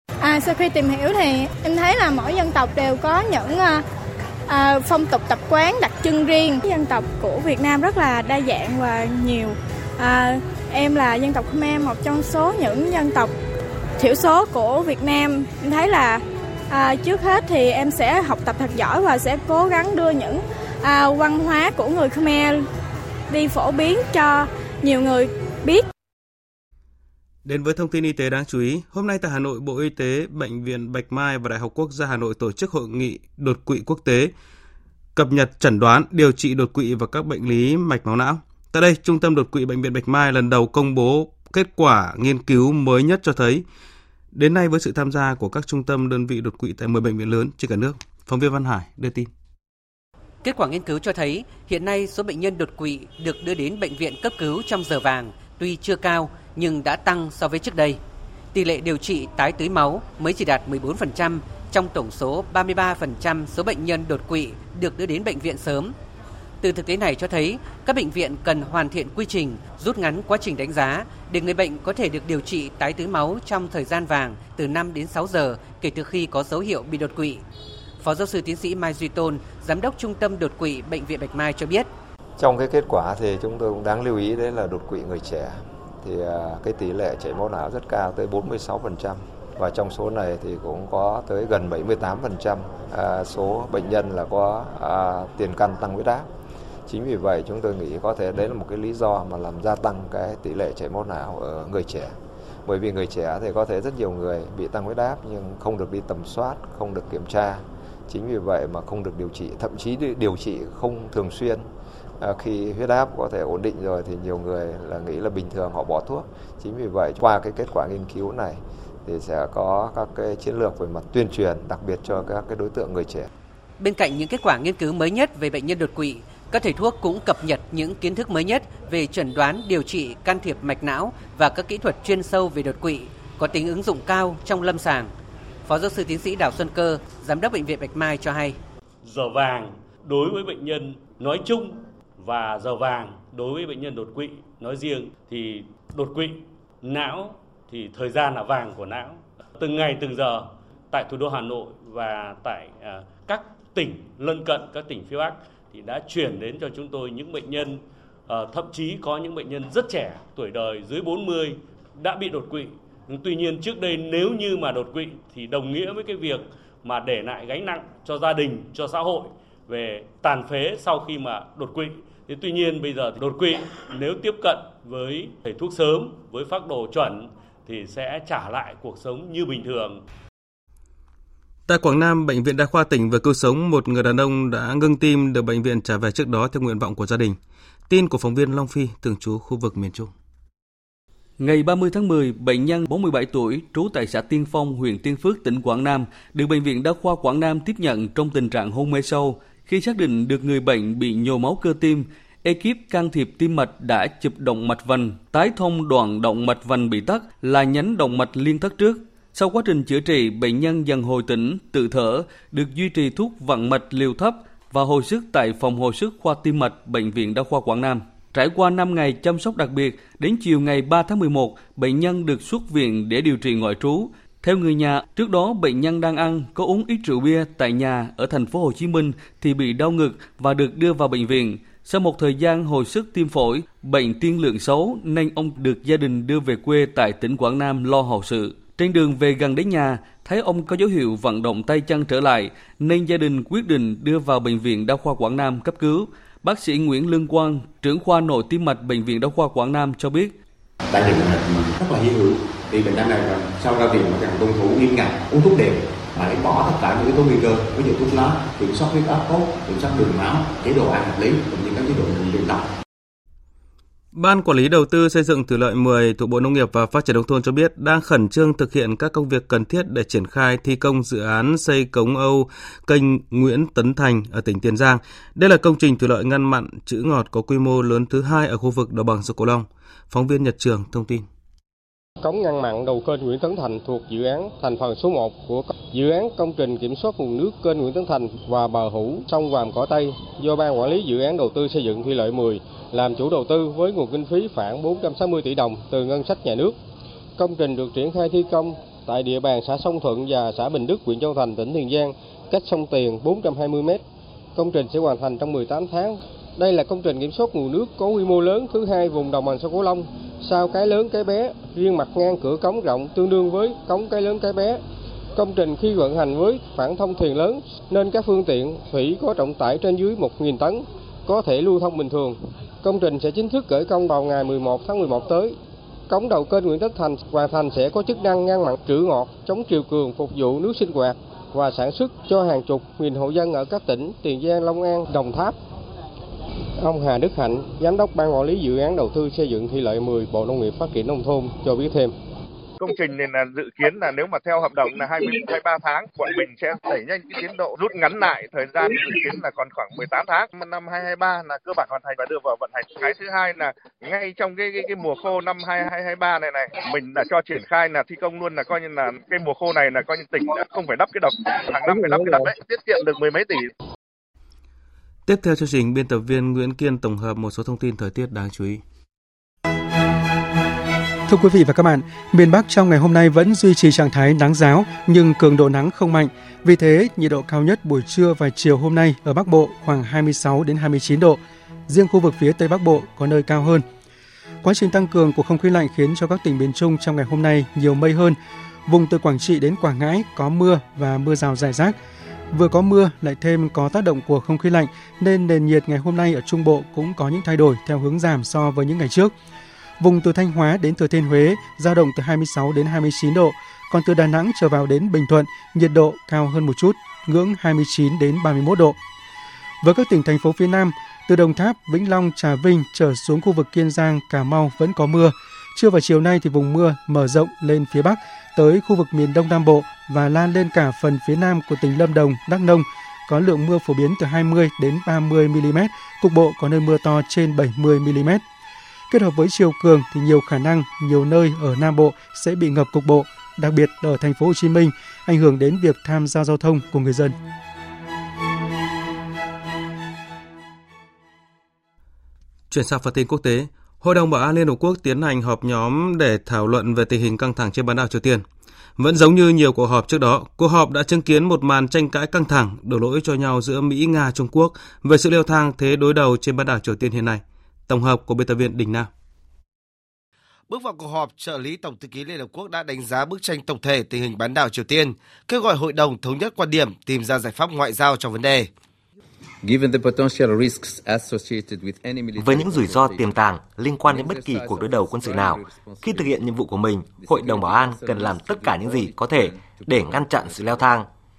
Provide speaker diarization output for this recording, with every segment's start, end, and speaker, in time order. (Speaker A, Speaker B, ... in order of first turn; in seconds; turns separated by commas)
Speaker A: 0.2-3.8, Speaker A: 4.5-13.3, Speaker A: 14.0-22.6, Speaker A: 23.3-25.9, Speaker B: 27.4-34.3, Speaker B: 35.2-43.6, Speaker B: 44.4-49.3, Speaker C: 50.4-58.0, Speaker C: 58.5-65.9, Speaker C: 66.6-77.4, Speaker C: 78.0-81.9, Speaker D: 82.4-96.3, Speaker D: 96.9-123.3, Speaker C: 123.8-135.1, Speaker C: 135.7-138.6, Speaker E: 139.0-180.0, Speaker B: 181.7-187.4, Speaker B: 187.9-190.1, Speaker F: 191.4-250.3, Speaker G: 250.9-262.7, Speaker B: 264.1-281.3, Speaker H: 282.2-296.8, Speaker H: 297.4-304.0, Speaker H: 304.6-314.8, Speaker H: 315.4-325.6, Speaker H: 326.1-335.6, Speaker H: 336.8-342.1, Speaker I: 342.8-363.7, Speaker B: 365.3-368.8, Speaker J: 371.3-383.9, Speaker J: 384.6-392.0, Speaker J: 392.5-399.3, Speaker J: 400.0-409.0, Speaker J: 409.8-428.4, Speaker J: 429.1-437.4, Speaker B: 442.7-448.4, Speaker B: 449.0-459.1, Speaker K: 460.7-468.7, Speaker G: 469.6-472.6, Speaker L: 472.3-481.1, Speaker G: 474.6-476.0, Speaker G: 477.3-477.6